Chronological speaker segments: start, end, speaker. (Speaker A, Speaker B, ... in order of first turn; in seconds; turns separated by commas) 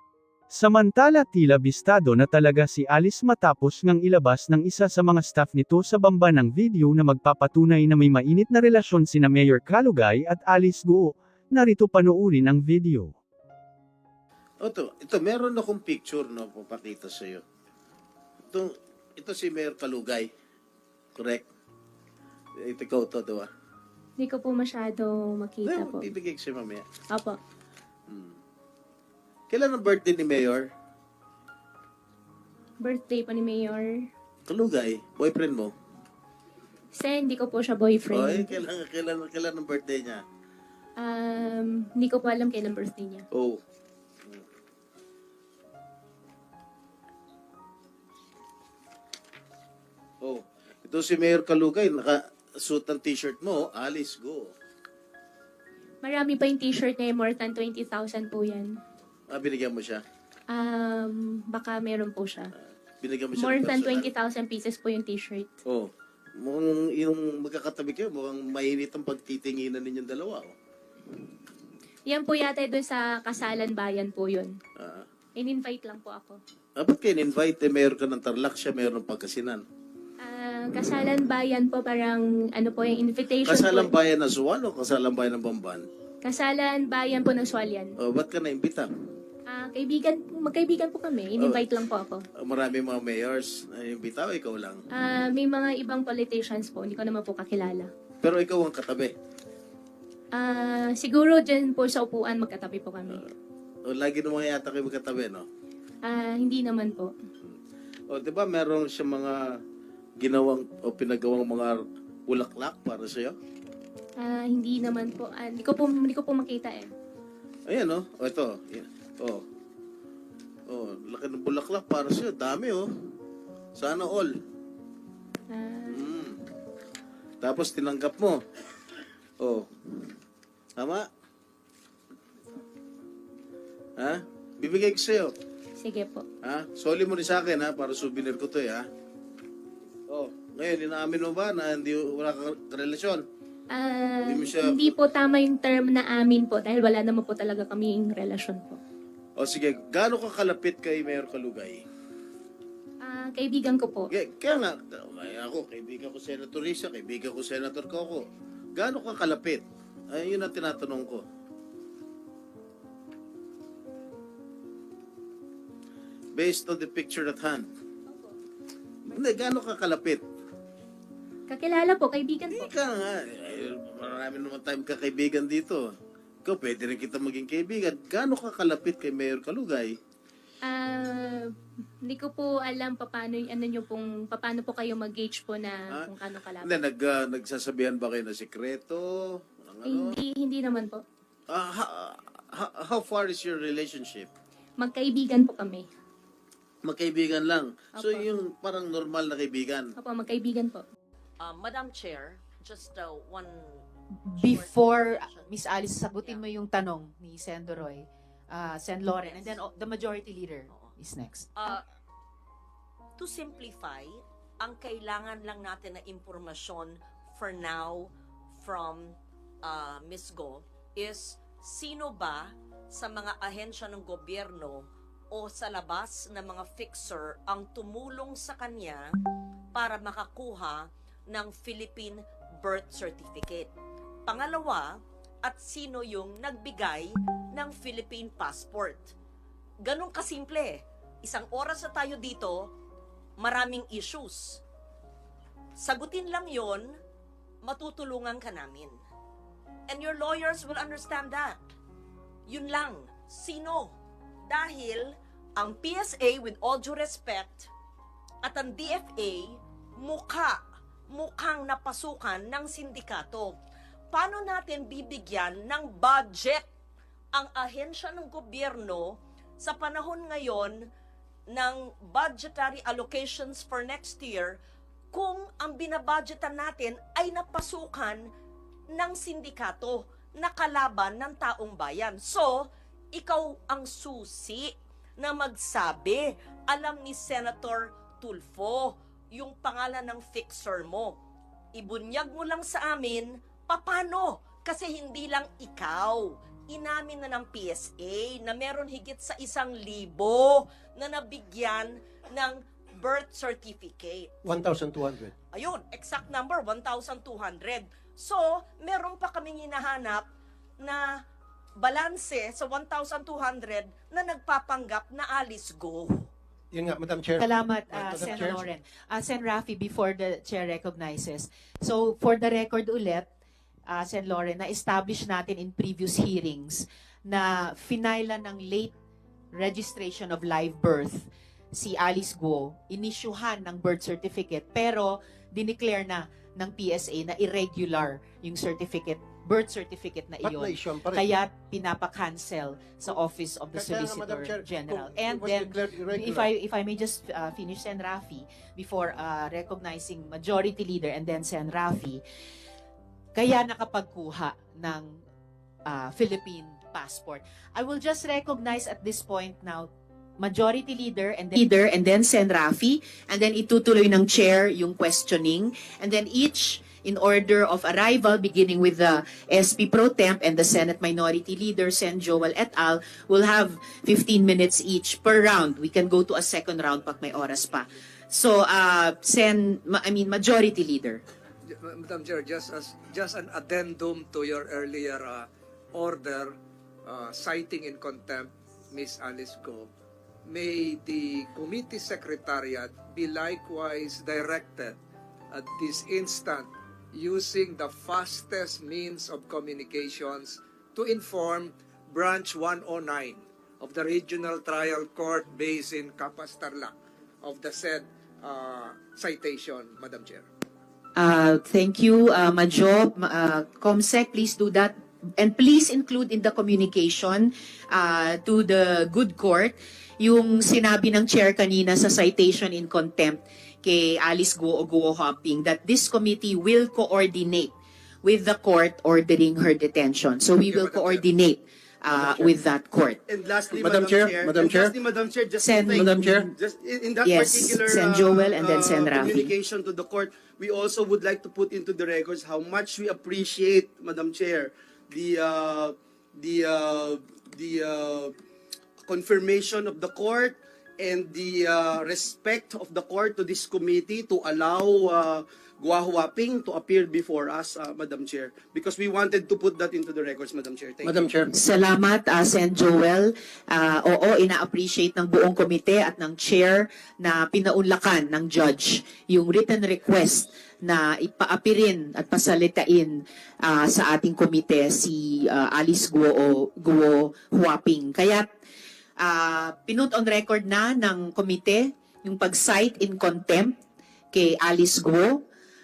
Speaker A: 0.5-13.2, Speaker B: 14.6-17.4, Speaker B: 18.5-20.3, Speaker B: 21.1-21.5, Speaker B: 22.6-23.5, Speaker C: 24.2-26.1, Speaker B: 25.6-26.8, Speaker C: 27.1-27.4, Speaker B: 28.1-28.4, Speaker B: 29.5-30.7, Speaker C: 32.8-33.9, Speaker B: 34.5-35.7, Speaker C: 36.9-38.6, Speaker B: 38.1-40.2, Speaker C: 41.0-43.2, Speaker B: 43.3-43.6, Speaker B: 50.2-54.5, Speaker C: 56.0-58.7, Speaker B: 59.3-60.0, Speaker C: 60.5-62.5, Speaker B: 62.6-64.1, Speaker C: 63.4-65.5, Speaker B: 65.7-70.5, Speaker C: 72.1-74.5, Speaker B: 74.8-75.1, Speaker C: 75.3-76.4, Speaker B: 76.8-79.7, Speaker C: 80.2-83.9, Speaker B: 83.4-85.8, Speaker C: 86.2-87.9, Speaker B: 88.0-88.9, Speaker C: 89.5-92.2, Speaker B: 91.4-91.7, Speaker B: 92.4-94.8, Speaker C: 95.0-97.9, Speaker B: 98.2-99.1, Speaker C: 100.3-103.2, Speaker B: 103.8-105.5, Speaker C: 106.0-107.1, Speaker B: 108.1-109.4, Speaker B: 110.2-113.3, Speaker C: 114.2-116.9, Speaker B: 117.7-119.4, Speaker B: 120.7-122.8, Speaker B: 123.8-124.3, Speaker C: 125.5-126.1, Speaker B: 125.9-126.3, Speaker B: 127.4-128.4, Speaker B: 129.4-130.1, Speaker B: 130.8-131.0, Speaker B: 134.0-135.3, Speaker C: 135.8-136.2, Speaker B: 136.4-138.8, Speaker B: 140.1-143.2, Speaker C: 143.7-148.8, Speaker B: 144.2-145.0, Speaker B: 149.4-151.8, Speaker C: 153.0-154.1, Speaker B: 154.1-161.2, Speaker B: 166.3-167.6, Speaker C: 168.1-168.3, Speaker B: 169.1-170.2, Speaker C: 171.5-172.7, Speaker B: 172.5-175.8, Speaker B: 176.4-179.9, Speaker C: 180.7-181.5, Speaker C: 182.1-186.7, Speaker B: 185.9-190.2, Speaker C: 189.8-191.0, Speaker B: 191.5-194.3, Speaker C: 194.8-195.9, Speaker B: 196.8-199.9, Speaker C: 198.0-198.3, Speaker C: 200.0-200.8, Speaker D: 201.4-203.8, Speaker E: 204.3-211.7, Speaker D: 204.3-205.5, Speaker D: 209.2-209.6, Speaker D: 213.2-229.0, Speaker D: 229.7-233.7, Speaker D: 234.3-239.1, Speaker D: 239.8-242.7, Speaker D: 243.4-244.6, Speaker D: 245.8-246.9, Speaker D: 247.6-248.9, Speaker D: 249.9-251.6, Speaker D: 252.5-254.0, Speaker D: 254.5-257.7, Speaker D: 258.4-263.5, Speaker D: 264.1-266.6, Speaker D: 267.3-270.9, Speaker D: 271.5-274.6, Speaker D: 275.1-278.2, Speaker D: 278.9-291.1, Speaker D: 291.7-304.3, Speaker F: 304.4-305.3, Speaker D: 305.5-310.3, Speaker D: 310.8-311.2, Speaker D: 311.8-316.3, Speaker F: 316.7-318.6, Speaker E: 317.4-323.3, Speaker E: 323.9-328.9, Speaker E: 329.5-352.2, Speaker F: 340.4-341.3, Speaker F: 343.7-346.5, Speaker E: 353.3-355.2, Speaker E: 355.9-381.2, Speaker G: 381.8-389.9, Speaker G: 390.4-395.0, Speaker G: 395.5-410.5, Speaker E: 411.1-427.7, Speaker E: 428.2-433.2, Speaker H: 430.7-431.0, Speaker H: 432.1-432.6, Speaker H: 433.3-448.3, Speaker F: 433.8-434.9, Speaker E: 435.6-436.5, Speaker F: 435.9-436.5, Speaker E: 437.2-439.5, Speaker H: 449.0-461.3, Speaker F: 461.0-461.5, Speaker E: 461.5-478.5, Speaker E: 479.2-483.7, Speaker E: 484.3-485.4